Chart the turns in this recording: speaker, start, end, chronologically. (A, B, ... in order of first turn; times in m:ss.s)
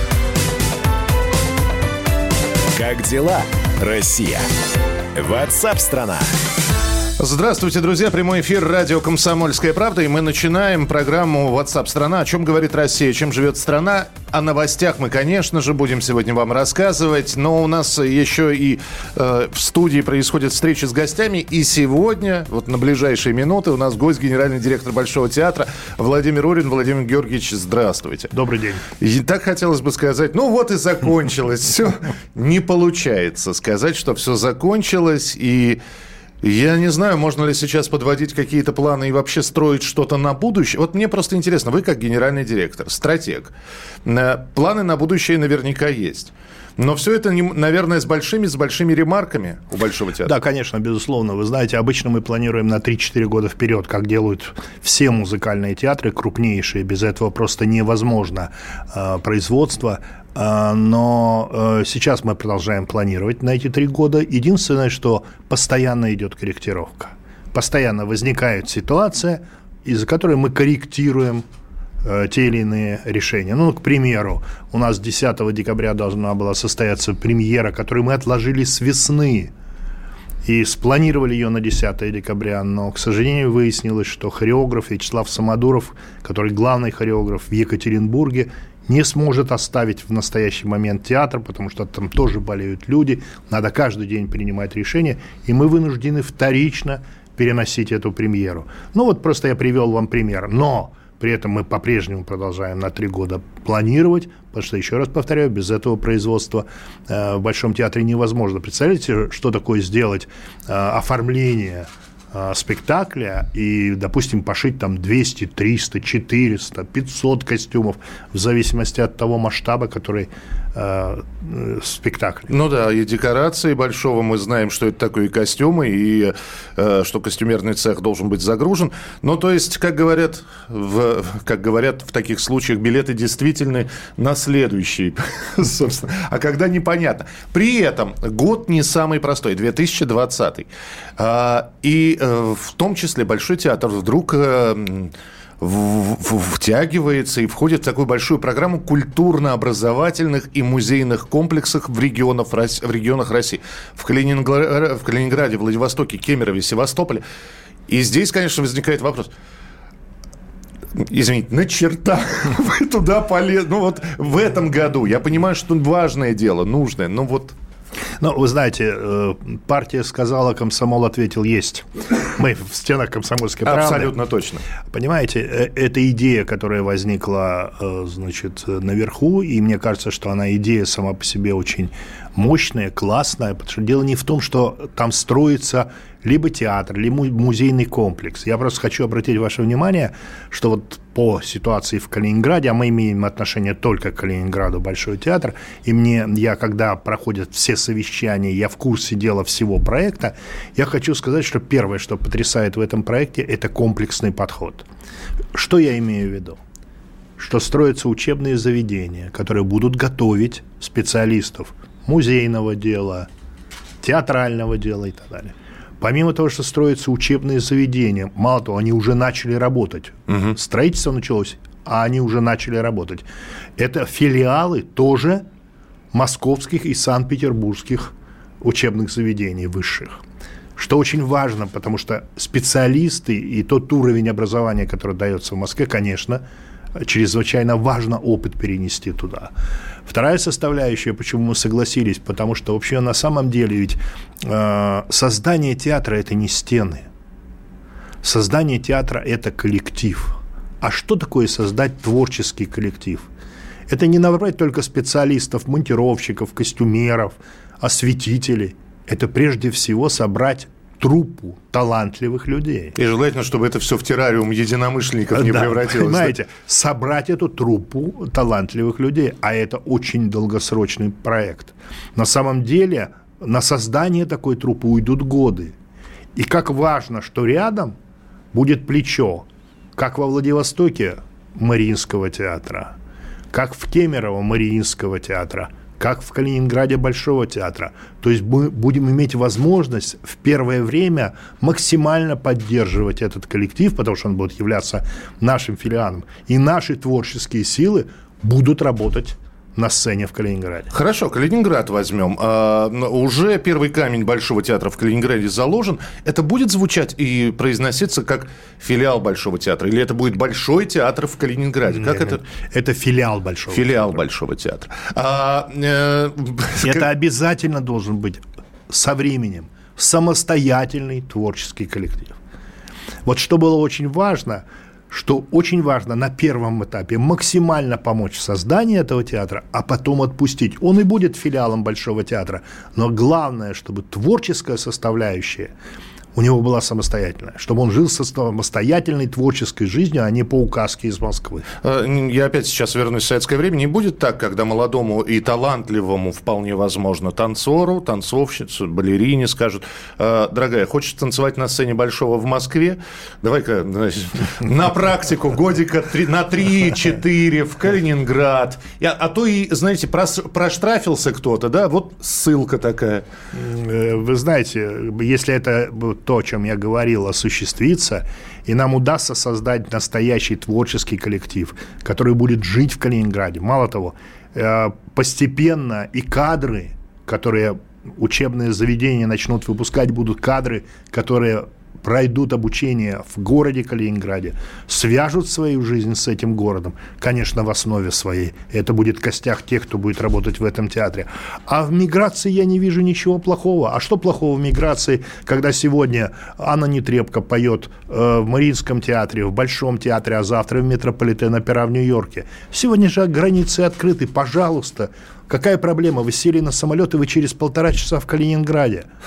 0:02.7-0:04.5 A
0:05.1-0:06.4 A
0:07.2-0:28.3 B
0:28.3-0:28.8 C
0:29.0-0:35.8 B
0:36.4-0:43.5 B
0:44.0-0:50.3 B
0:50.2-1:11.4 C
1:12.0-1:19.5 C
1:20.4-2:02.5 C
2:02.5-2:37.2 B
2:37.9-2:39.3 B
2:41.0-2:47.6 B
2:48.2-2:54.1 C
2:53.6-2:54.6 B
2:54.9-3:24.8 C
3:25.6-3:26.6 C
3:27.4-3:33.3 C
3:34.0-3:43.2 C
3:43.8-3:45.4 C
3:46.1-3:50.2 C
3:50.8-3:56.4 C
3:57.0-3:59.5 C
4:00.1-4:07.1 C
4:08.2-4:13.3 C
4:13.9-4:23.0 C
4:23.0-4:26.3 B
4:25.3-4:35.7 C
4:36.4-4:37.9 C
4:38.5-4:39.5 C
4:40.0-4:42.9 C
4:43.5-5:00.9 C
5:00.9-5:12.4 B
5:11.9-5:14.2 C
5:13.7-5:17.0 B
5:16.8-5:22.4 C
5:23.3-5:35.7 C
5:36.4-5:41.7 C
5:41.8-6:03.2 B
6:03.5-6:49.1 C